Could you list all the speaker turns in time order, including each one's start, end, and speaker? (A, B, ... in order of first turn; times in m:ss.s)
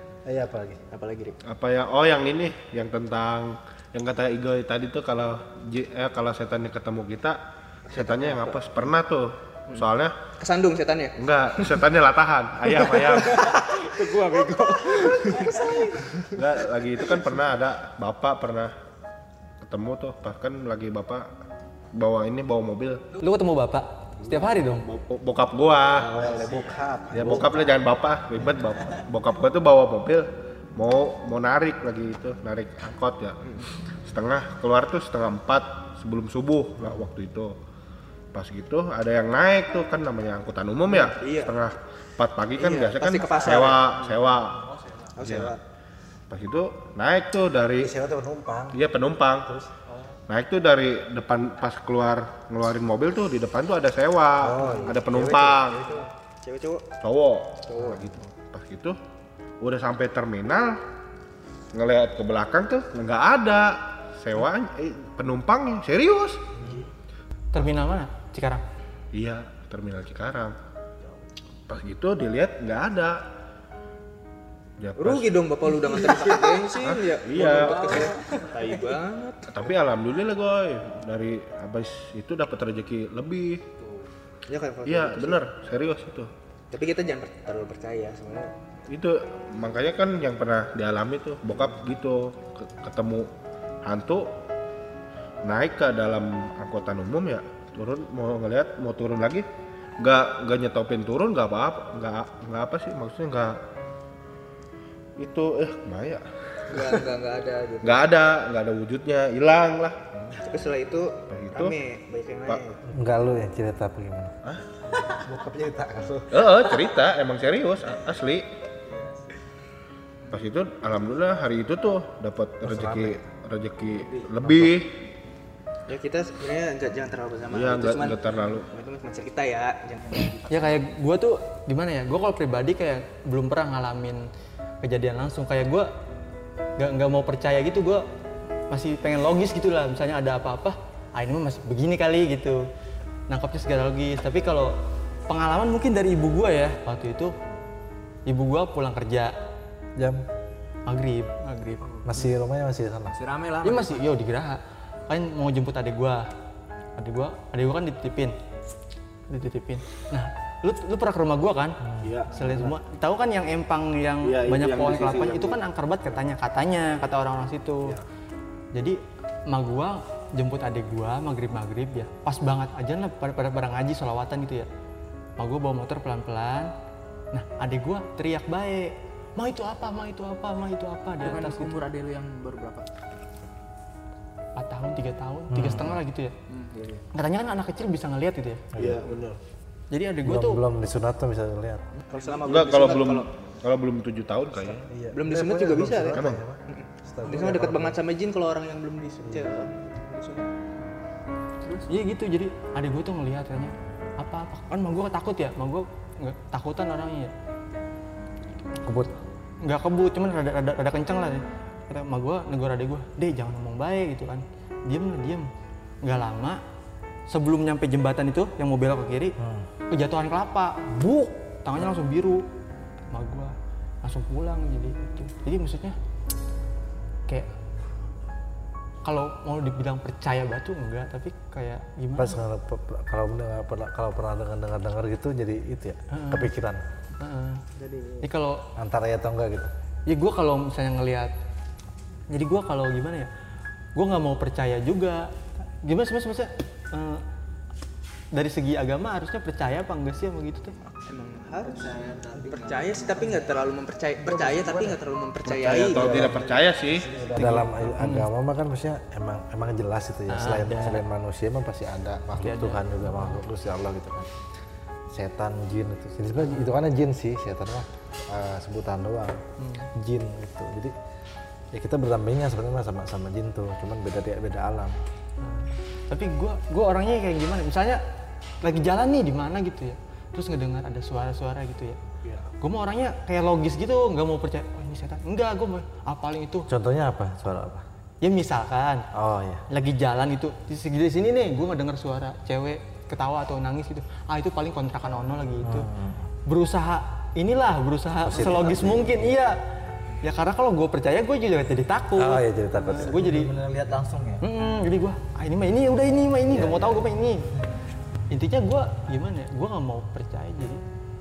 0:00.2-0:00.8 A
0:00.9-0:01.4 B
0:01.4-0:10.2 C
0:07.9-0:08.6 B
0:09.7-0:11.8 B
0:11.2-0:13.9 C
0:12.6-0:16.4 B
0:16.3-0:18.7 C
0:19.6-0:21.3 C
0:21.9-0:23.0 C
0:23.2-0:24.9 D
0:24.2-0:26.2 C
0:25.9-0:27.8 A
0:26.2-0:26.6 B
0:27.1-0:33.4 C
0:33.4-0:33.7 B
0:34.0-0:37.6 C
0:38.3-0:44.6 C
0:40.9-0:41.6 B
0:42.6-0:44.1 B
0:45.1-0:45.6 B
0:45.2-0:45.6 C
0:46.3-0:47.9 C
0:47.8-0:48.8 A
0:48.7-0:49.5 C
0:50.3-0:55.9 C
0:54.4-0:55.8 A
0:54.6-0:55.0 B
0:55.7-0:56.8 B
0:57.0-0:59.0 C
0:57.7-0:58.1 B
0:59.6-1:00.8 C
1:01.7-1:06.5 C
1:07.5-1:08.6 D
1:09.1-1:10.6 C
1:11.7-1:13.2 C
1:14.8-1:15.4 C
1:15.0-1:19.5 B
1:16.6-1:18.2 C
1:19.5-1:23.6 C
1:24.5-1:25.4 B
1:24.8-1:26.3 C
1:26.7-1:28.5 B
1:28.9-1:33.3 C
1:33.8-1:34.4 C
1:35.4-1:39.4 C
1:40.0-1:43.6 C
1:45.2-1:47.0 C
1:46.7-1:48.1 B
1:47.8-1:50.2 C
1:50.3-1:52.8 B
1:51.3-1:51.8 C
1:52.9-1:54.3 A
1:55.0-1:56.4 A
1:56.3-1:58.5 C
2:00.3-2:05.0 C
2:02.6-2:03.2 A
2:04.4-2:04.8 A
2:05.9-2:10.6 B
2:07.5-2:08.7 C
2:10.5-2:14.3 D
2:14.8-2:15.9 D
2:16.8-2:18.0 D
2:18.7-2:22.7 D
2:23.3-2:24.7 D
2:25.3-2:27.3 D
2:28.2-2:29.3 D
2:30.0-2:30.2 A
2:30.9-2:31.8 D
2:32.0-2:33.1 A
2:33.1-2:34.0 B
2:33.6-2:36.3 D
2:37.0-2:38.3 D
2:39.3-2:41.8 D
2:41.8-2:42.7 A
2:42.0-2:42.3 C
2:42.3-2:48.0 D
2:44.2-2:45.6 C
2:48.7-2:54.7 D
2:55.4-2:56.7 D
2:57.3-3:01.8 D
3:01.2-3:02.9 B
3:04.6-3:06.3 D
3:05.5-3:06.0 A
3:06.5-3:07.0 B
3:07.1-3:08.6 D
3:08.7-3:09.0 A
3:08.8-3:09.4 C
3:09.9-3:10.6 D
3:10.2-3:11.8 A
3:12.0-3:13.3 B
3:12.4-3:14.9 C
3:14.8-3:18.0 A
3:15.1-3:20.5 B
3:16.1-3:16.4 C
3:19.2-3:19.5 A
3:21.9-3:27.3 D
3:28.8-3:29.2 A
3:29.6-3:35.5 D
3:36.0-3:36.6 D
3:37.3-3:39.4 D
3:39.4-3:39.7 A
3:39.9-3:40.9 D
3:40.9-3:41.3 A
3:41.6-3:42.4 D
3:43.1-3:46.0 D
3:49.0-3:52.4 D
3:52.2-3:56.8 A
3:56.1-3:56.5 D
3:57.2-3:57.6 D
3:57.8-3:58.2 B
3:58.2-3:58.6 D
3:58.8-3:59.7 A
4:00.1-4:01.3 D
4:02.3-4:03.3 D
4:03.9-4:07.2 D
4:08.3-4:10.7 D
4:11.1-4:12.0 B
4:11.6-4:13.4 E
4:12.5-4:16.3 B
4:14.2-4:15.0 A
4:15.4-4:17.0 C
4:15.9-4:16.5 A
4:16.2-4:17.5 E
4:17.1-4:24.3 A
4:17.4-4:18.3 D
4:20.3-4:21.0 D
4:22.4-4:23.4 D
4:25.1-4:29.4 A
4:26.4-4:26.7 D
4:29.6-4:29.9 D
4:29.9-4:30.9 A
4:31.7-4:35.0 A
4:35.4-4:38.0 D
4:38.6-4:42.0 D
4:42.6-4:46.7 D
4:46.7-4:47.8 A
4:48.2-4:49.0 D
4:49.1-4:49.6 A
4:49.7-4:55.9 D
4:55.6-4:56.3 A
4:56.5-4:59.6 D
4:58.2-4:59.3 A
5:00.2-5:03.5 D
5:02.2-5:03.3 A
5:03.0-5:04.4 E
5:04.4-5:07.4 D
5:06.5-5:07.1 A
5:08.3-5:10.8 D